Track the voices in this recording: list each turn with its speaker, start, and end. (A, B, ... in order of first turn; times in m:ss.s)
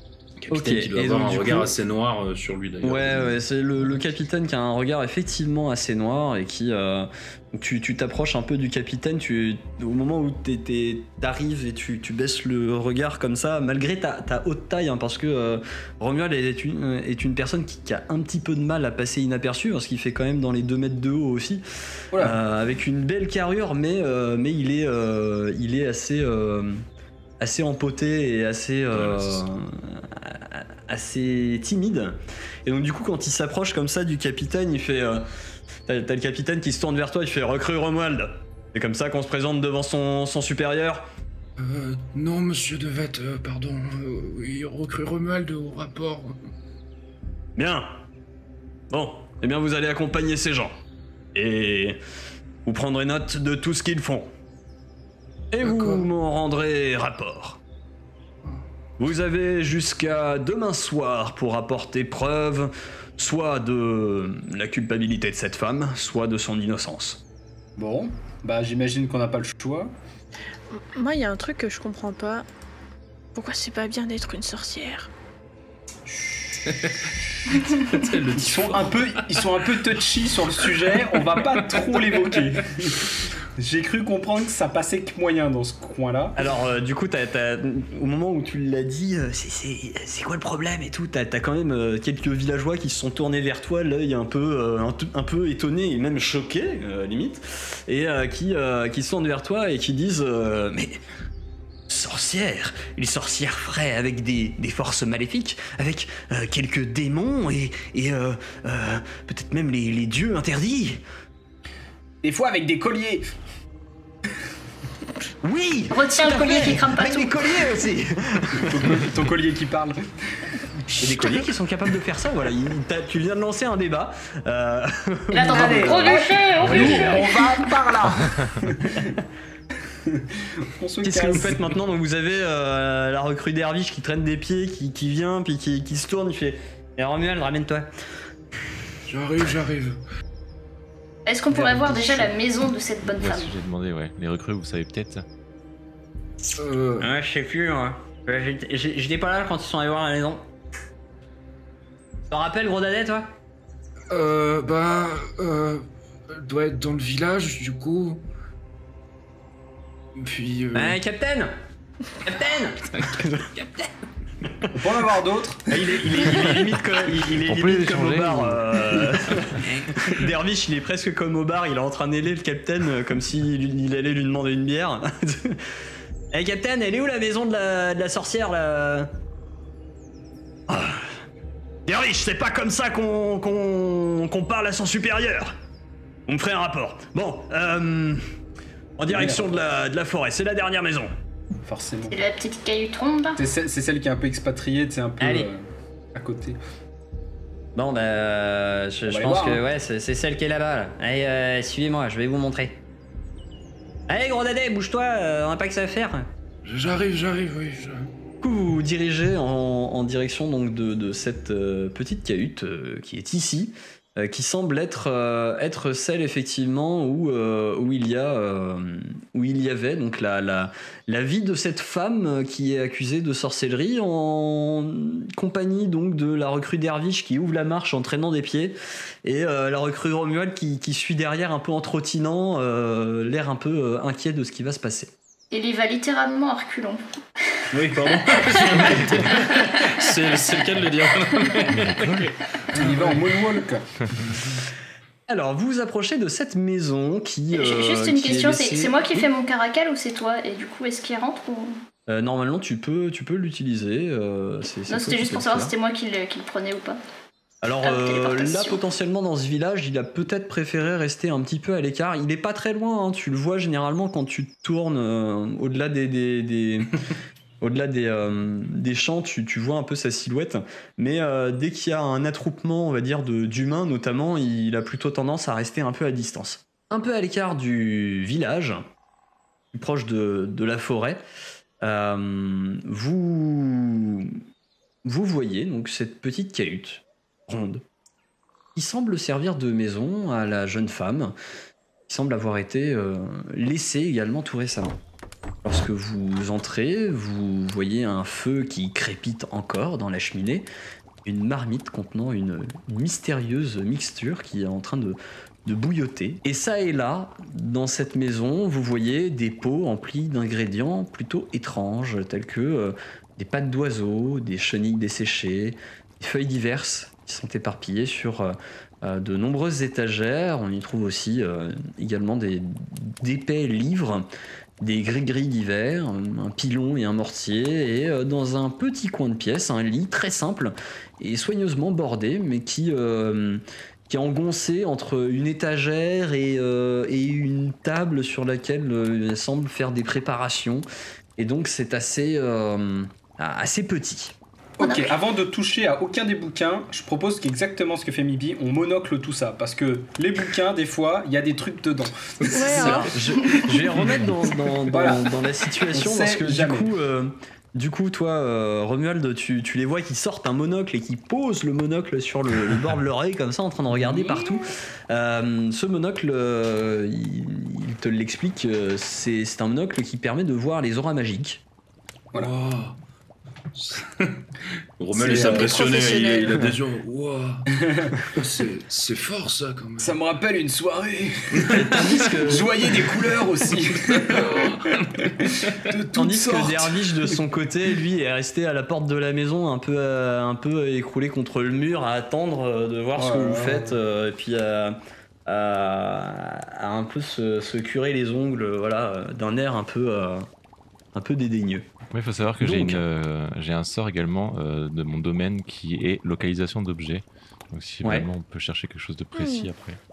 0:00.4-0:03.4 A
0:00.5-0:01.7 B
0:02.8-0:21.6 B
0:22.1-0:22.4 C
0:22.2-0:26.8 B
0:27.4-0:35.3 B
0:28.9-0:29.4 A
0:35.9-0:41.1 B
0:41.6-0:46.4 A
0:47.6-0:48.0 B
0:48.9-0:50.8 B
0:51.4-0:52.0 B
0:52.6-0:54.3 B
0:55.5-0:57.6 B
0:55.7-0:56.0 A
0:59.0-1:07.2 B
1:07.8-1:09.9 C
1:11.0-1:12.4 D
1:13.4-1:15.1 D
1:16.6-1:19.2 A
1:18.4-1:26.4 C
1:20.7-1:22.8 A
1:26.4-1:41.0 B
1:41.9-1:51.0 B
1:52.2-1:53.2 C
1:55.4-1:59.1 B
1:55.9-1:57.7 E
1:58.6-2:00.5 C
2:01.0-2:07.3 B
2:05.3-2:07.7 E
2:05.5-2:09.2 C
2:08.1-2:08.5 F
2:10.1-2:11.6 C
2:11.0-2:17.9 B
2:19.1-2:20.0 A
2:21.3-2:23.5 E
2:21.5-2:22.3 C
2:23.1-2:25.2 F
2:26.6-2:27.1 A
2:27.0-2:30.4 B
2:32.3-2:33.3 B
2:34.1-2:38.2 A
2:40.2-2:41.0 A
2:40.7-2:41.5 B
2:42.2-2:43.8 B
2:44.8-2:45.8 C
2:45.7-2:55.6 B
2:47.3-2:49.2 F
2:56.3-2:59.1 B
3:00.7-3:01.1 B
3:01.9-3:05.6 B
3:06.3-3:08.2 B
3:09.0-3:11.1 B
3:09.1-3:09.5 C
3:11.6-3:12.1 C
3:12.1-3:13.4 E
3:13.4-3:15.6 C
3:15.2-3:15.5 B
3:16.1-3:16.6 C
3:17.8-3:22.8 B
3:19.1-3:19.6 C
3:24.1-3:26.3 B
3:26.6-3:28.1 A
3:28.4-3:55.1 B
3:55.5-3:57.6 E
3:57.7-4:03.4 A
3:58.3-3:59.9 E
4:01.9-4:02.2 F
4:02.7-4:03.8 C
4:05.3-4:09.3 B
4:07.5-4:11.8 E
4:12.1-4:15.7 B
4:14.9-4:17.0 E
4:17.6-4:27.0 B
4:17.8-4:18.8 E
4:27.6-4:38.9 B
4:39.7-4:41.2 B
4:41.8-4:44.4 B
4:45.0-4:47.8 B
4:48.8-4:51.3 B
4:52.1-4:55.0 B
4:55.6-5:00.7 B
5:01.2-5:24.3 B
5:24.8-5:44.4 B
5:44.8-5:53.1 C
5:44.8-5:45.2 E
5:52.4-5:54.3 A
5:52.5-5:53.2 D
5:52.9-6:11.6 B
5:54.9-5:55.3 C
5:55.9-5:56.9 C
6:03.9-6:04.6 C
6:12.4-6:13.0 A
6:13.7-6:14.5 A
6:15.0-6:20.2 A
6:15.1-6:16.2 C
6:15.2-6:16.7 D
6:17.8-6:18.1 C
6:20.0-6:27.3 C
6:21.6-6:22.7 B
6:21.6-6:22.2 A
6:24.0-6:26.0 A
6:26.1-6:40.5 B
6:33.2-6:34.0 C
6:41.1-6:41.9 B
6:42.1-6:50.0 F
6:42.6-6:43.0 B
6:49.4-6:49.7 D